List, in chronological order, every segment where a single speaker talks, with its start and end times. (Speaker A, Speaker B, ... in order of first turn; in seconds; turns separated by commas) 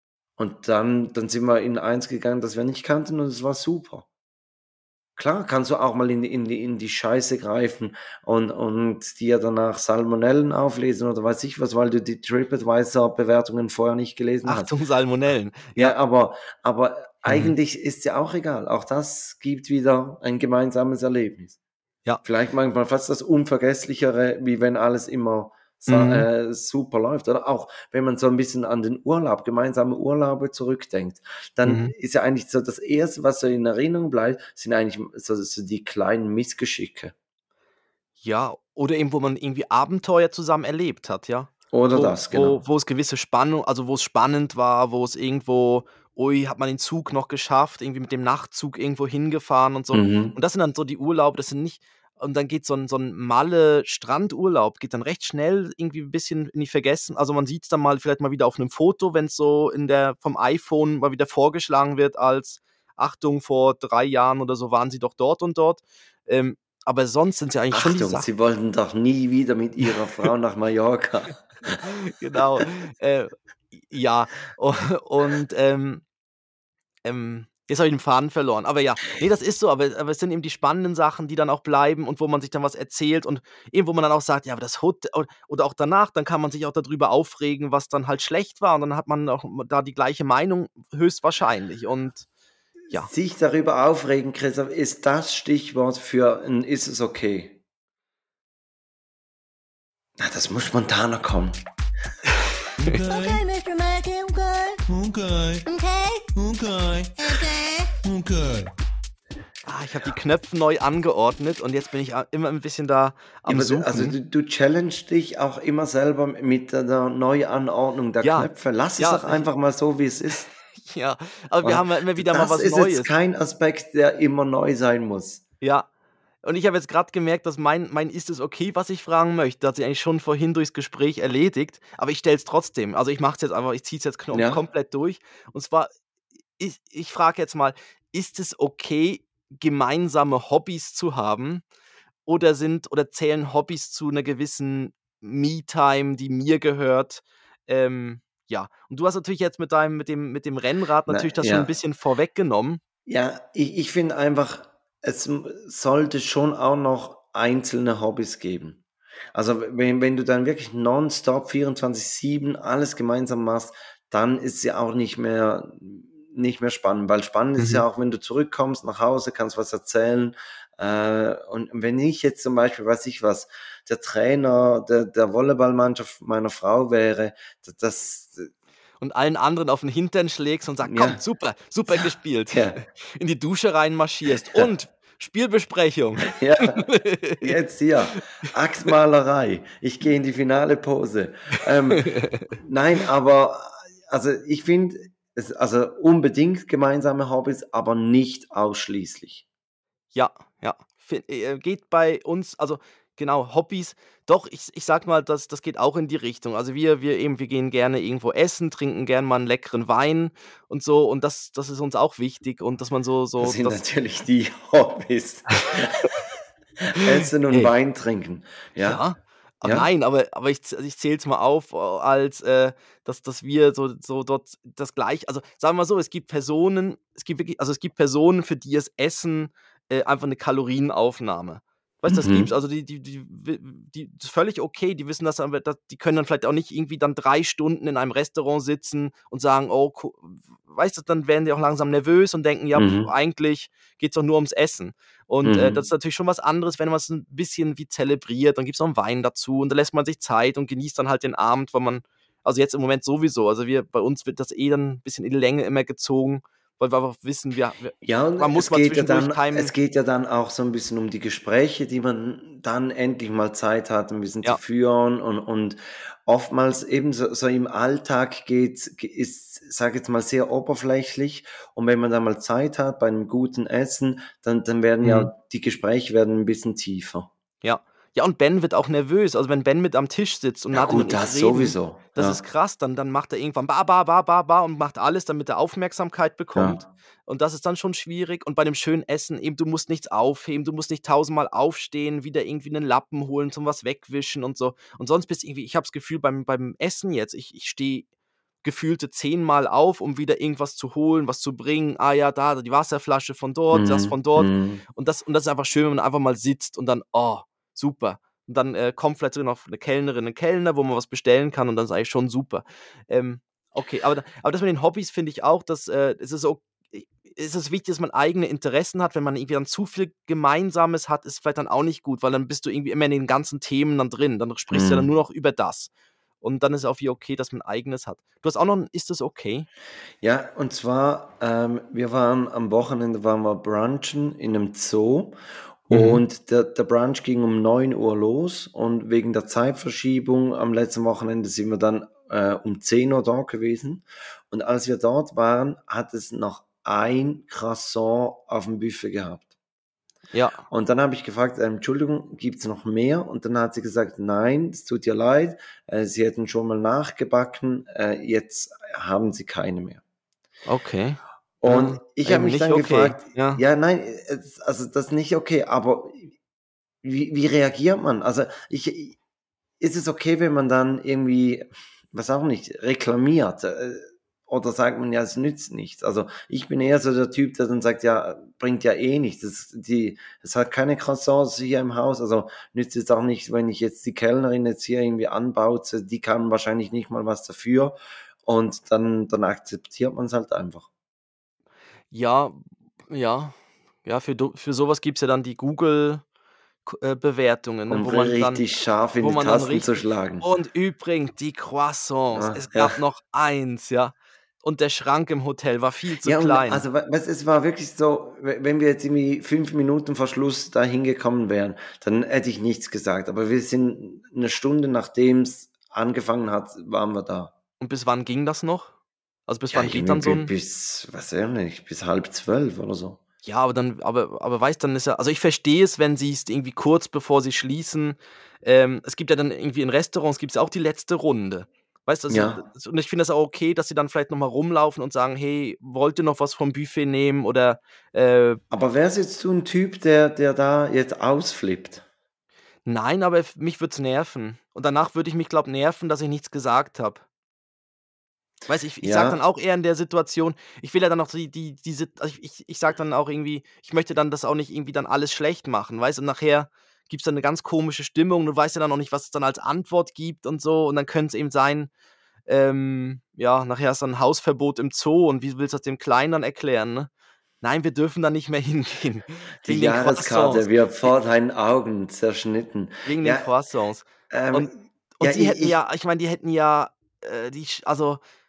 Speaker A: 0.4-4.0, Speaker A: 5.2-14.7, Speaker B: 14.4-15.9, Speaker A: 15.8-21.6, Speaker B: 17.2-17.5, Speaker A: 22.2-37.1, Speaker B: 25.9-26.2, Speaker B: 31.6-31.9, Speaker B: 38.2-68.3, Speaker A: 41.7-42.6, Speaker A: 49.9-50.4, Speaker A: 67.7-71.8, Speaker B: 71.8-76.0, Speaker A: 72.4-72.6, Speaker B: 77.0-92.2, Speaker A: 92.9-97.6, Speaker A: 100.2-101.6, Speaker A: 102.9-103.4, Speaker C: 102.9-104.9, Speaker C: 105.6-108.2, Speaker B: 109.7-114.2, Speaker A: 113.5-120.5, Speaker B: 118.2-119.4, Speaker B: 120.8-123.1, Speaker A: 121.6-125.4, Speaker B: 125.6-125.9, Speaker B: 126.4-135.9, Speaker A: 134.3-134.6, Speaker B: 136.6-141.6, Speaker B: 142.2-152.8, Speaker A: 151.1-151.7, Speaker A: 153.1-158.8, Speaker A: 159.3-178.5, Speaker B: 167.6-167.8, Speaker B: 179.0-187.5, Speaker A: 180.8-181.2, Speaker A: 182.0-182.8, Speaker A: 186.3-186.9, Speaker A: 187.4-192.1, Speaker B: 188.2-188.5, Speaker B: 191.9-192.5, Speaker A: 192.6-199.4, Speaker B: 200.1-213.8, Speaker A: 213.4-216.0, Speaker A: 216.9-219.0, Speaker B: 217.0-217.7, Speaker B: 218.8-259.7, Speaker A: 219.6-219.9, Speaker A: 232.1-232.5, Speaker A: 242.8-243.1, Speaker A: 245.4-245.8, Speaker A: 258.0-277.3, Speaker B: 275.0-275.3, Speaker B: 277.6-298.1, Speaker A: 280.7-282.4, Speaker A: 286.5-286.9, Speaker B: 298.6-325.9, Speaker A: 303.7-304.8, Speaker A: 324.7-325.1, Speaker B: 326.4-329.7, Speaker A: 330.2-335.4, Speaker A: 335.9-349.5, Speaker B: 335.9-336.2, Speaker B: 350.3-350.6, Speaker A: 350.7-360.0, Speaker B: 360.6-363.6, Speaker A: 361.6-366.3, Speaker A: 367.0-369.1, Speaker A: 369.8-390.9, Speaker B: 392.1-396.2, Speaker B: 396.9-398.6, Speaker A: 397.9-400.5, Speaker B: 399.2-406.8, Speaker A: 402.3-403.0, Speaker A: 406.2-417.5, Speaker B: 417.8-418.9, Speaker B: 419.5-420.5, Speaker A: 419.7-423.2, Speaker B: 423.4-438.6, Speaker A: 432.3-432.6, Speaker A: 438.7-442.0, Speaker B: 442.9-447.2, Speaker B: 448.7-461.9, Speaker A: 449.0-449.4, Speaker B: 462.5-467.1, Speaker B: 467.6-471.1, Speaker A: 469.6-473.4, Speaker B: 473.0-478.2, Speaker A: 474.3-475.8